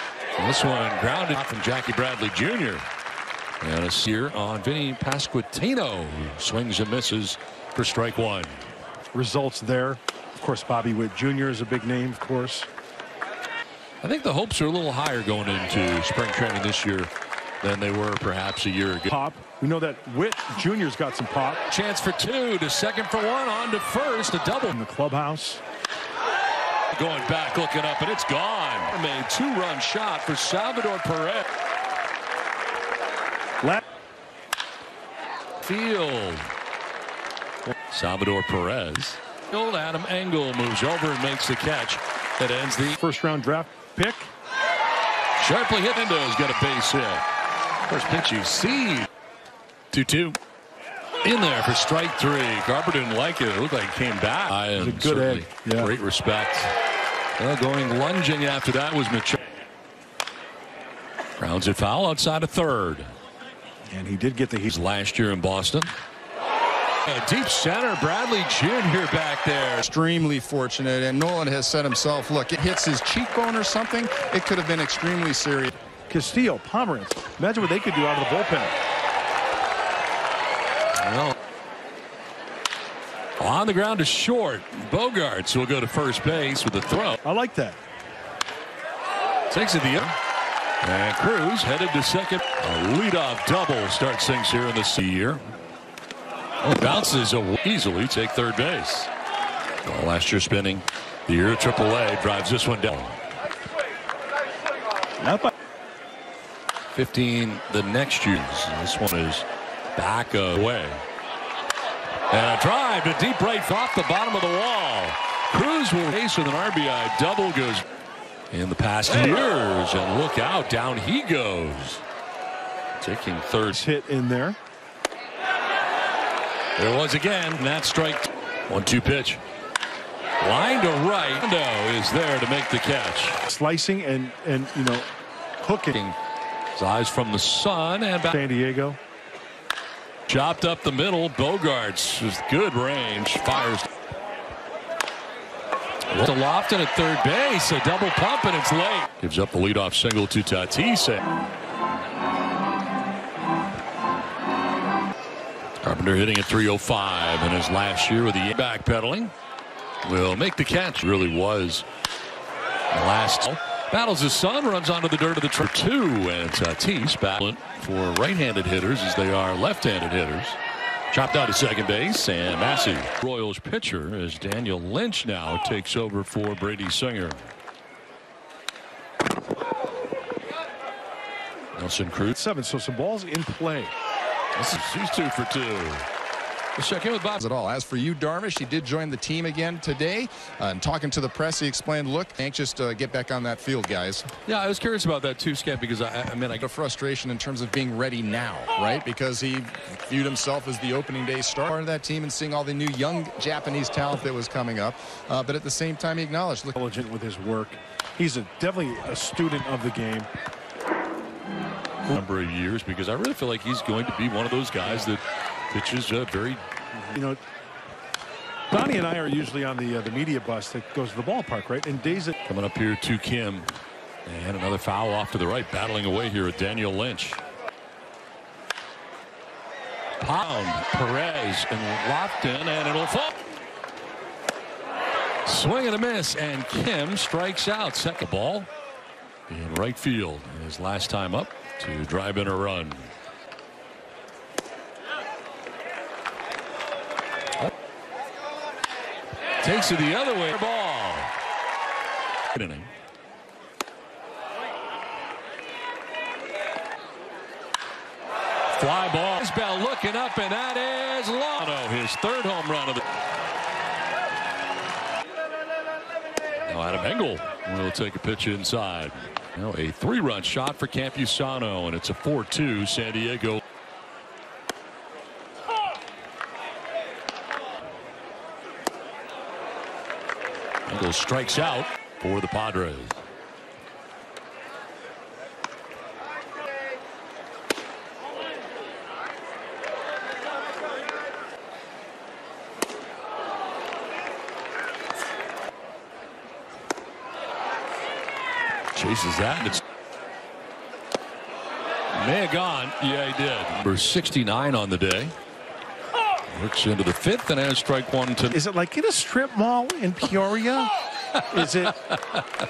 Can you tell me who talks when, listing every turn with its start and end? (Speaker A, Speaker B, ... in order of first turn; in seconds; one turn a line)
Speaker A: 0.4-2.9
Speaker A: 3.6-8.5
Speaker B: 9.1-12.7
Speaker A: 14.0-17.1
Speaker A: 17.6-19.1
Speaker B: 19.1-21.6
Speaker A: 21.7-24.8
Speaker B: 24.7-25.6
Speaker A: 26.9-31.5
Speaker A: 35.6-36.5
Speaker A: 37.9-43.0
Speaker B: 43.0-44.3
Speaker A: 45.4-47.2
Speaker A: 47.9-49.1
Speaker A: 49.9-50.4
Speaker A: 51.2-56.7
Speaker B: 54.8-55.9
Speaker A: 57.4-59.4
Speaker A: 61.4-63.1
Speaker B: 63.9-64.7
Speaker A: 64.7-65.9
Speaker A: 67.0-69.8
Speaker C: 69.8-75.7
Speaker B: 76.1-78.7
Speaker A: 81.0-81.3
Speaker A: 83.4-87.2
Speaker B: 87.2-87.8
Speaker A: 89.5-90.2
Speaker A: 90.8-95.5
Speaker A: 96.6-99.1
Speaker A: 99.8-103.2
Speaker B: 105.2-105.5
Speaker A: 106.9-111.0
Speaker A: 112.3-117.8
Speaker A: 118.5-122.0
Speaker A: 123.0-123.8
Speaker B: 123.7-124.6
Speaker A: 126.8-129.4
Speaker A: 130.4-133.4
Speaker B: 133.5-135.1
Speaker B: 135.6-136.0
Speaker A: 135.9-136.2
Speaker A: 136.7-138.4
Speaker B: 138.2-139.0
Speaker A: 140.3-143.9
Speaker A: 146.1-151.2
Speaker A: 155.8-159.3
Speaker A: 160.0-161.8
Speaker A: 162.9-170.6
Speaker A: 171.1-177.5
Speaker A: 181.7-182.4
Speaker B: 182.3-183.9
Speaker A: 184.6-186.1
Speaker A: 186.8-187.4
Speaker C: 187.4-194.3
Speaker A: 194.4-196.6
Speaker C: 196.6-206.8
Speaker B: 206.8-210.3
Speaker A: 212.1-216.6
Speaker B: 217.1-217.4
Speaker B: 218.7-222.3
Speaker A: 222.4-223.7
Speaker A: 224.2-227.4
Speaker A: 230.2-233.3
Speaker A: 235.4-238.7
Speaker A: 239.5-243.1
Speaker A: 249.6-251.3
Speaker A: 252.5-252.9
Speaker A: 258.7-263.0
Speaker A: 266.6-273.6
Speaker A: 280.9-283.2
Speaker A: 298.9-299.8
Speaker A: 302.1-305.3
Speaker A: 306.5-308.6
Speaker B: 308.5-312.0
Speaker A: 311.3-312.4